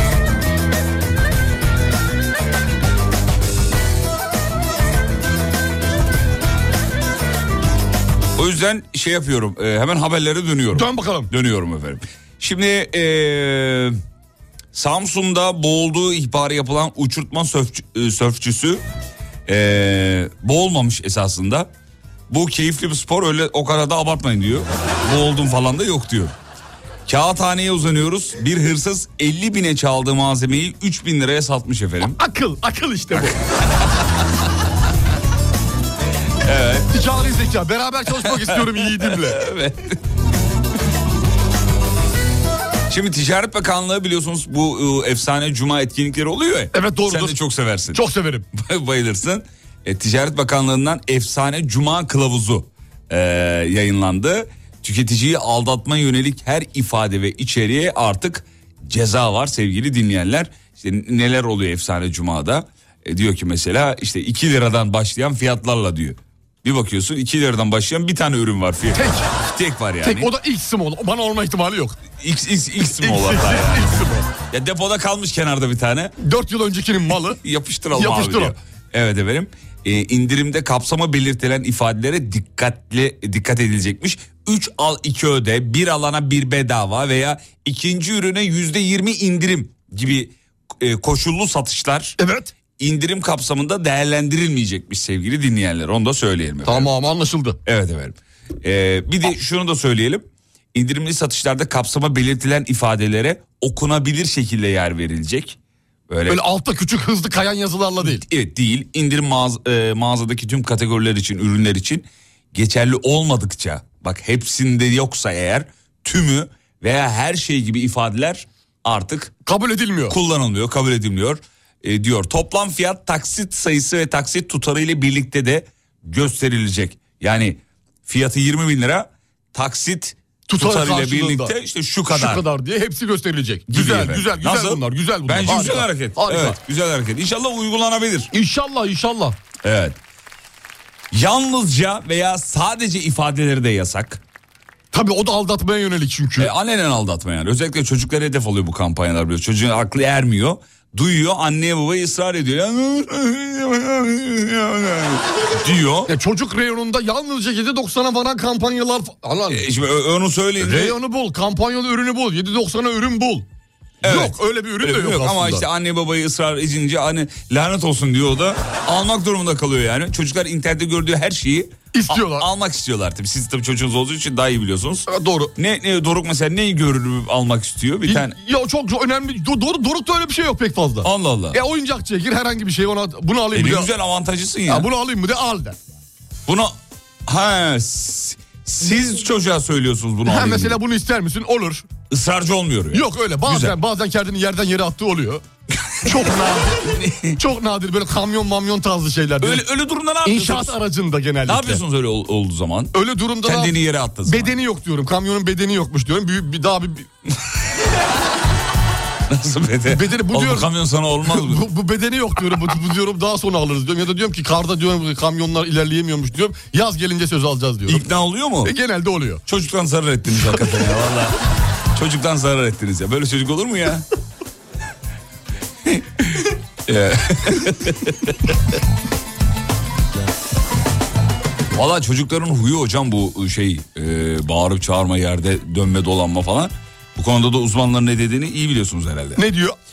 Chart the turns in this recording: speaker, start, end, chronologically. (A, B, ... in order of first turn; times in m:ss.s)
0:08.4-0:14.0 A
0:10.7-0:11.3 B
0:14.7-0:18.8 A
0:19.5-0:21.7 A
0:22.3-0:26.4 A
0:27.1-0:32.2 A
0:32.2-0:33.4 B
0:33.1-0:34.1 A
0:36.4-0:36.9 A
0:36.9-0:39.4 B
0:38.2-0:40.0 A
0:42.9-1:10.3 A
0:46.7-0:47.4 B
0:47.9-0:48.5 B
1:09.0-1:09.3 B
1:10.0-1:12.0 B
1:12.2-1:14.0 A
1:12.8-1:14.3 B
1:14.5-1:16.1 A
1:16.2-1:17.4 B
1:17.4-1:32.2 A
1:17.9-1:18.6 B
1:32.2-1:32.5 B
1:32.8-1:36.9 A
1:36.6-1:37.6 B
1:37.6-1:45.6 A
1:46.1-1:46.4 A
1:46.3-1:48.2 B
1:48.0-1:59.3 A
1:59.5-2:00.2 B
2:00.1-2:12.4 A
2:10.5-2:11.5 B
2:12.1-2:16.6 B
2:13.7-2:18.3 A
2:18.3-2:19.4 B
2:19.6-2:20.0 A
2:21.1-2:24.2 A
2:24.9-2:26.5 B
2:26.4-2:36.1 A
2:36.1-2:39.6 B
2:39.5-2:41.0 A
2:40.6-2:43.5 B
2:44.0-2:58.4 A
2:44.0-2:45.6 B
2:51.9-2:52.5 B
2:55.1-2:55.5 B
2:58.1-3:03.9 B
3:01.0-3:01.6 A
3:03.5-3:04.9 A
3:04.7-3:05.8 B
3:06.5-3:06.8 A
3:07.3-3:10.8 A
3:10.2-3:11.9 B
3:12.1-3:13.8 A
3:12.9-3:15.4 B
3:16.0-3:19.6 B
3:16.8-3:17.4 A
3:19.4-3:20.8 A
3:20.2-3:21.8 B
3:21.5-3:24.6 A
3:22.9-3:27.1 B
3:29.3-3:31.7 A
3:29.9-3:30.7 B
3:31.2-3:38.0 B
3:37.9-3:38.8 A
3:38.6-3:39.4 B
3:39.5-3:41.4 A
3:41.9-3:44.1 A
3:45.8-3:48.8 A
3:51.7-3:59.4 A
3:59.4-3:59.8 B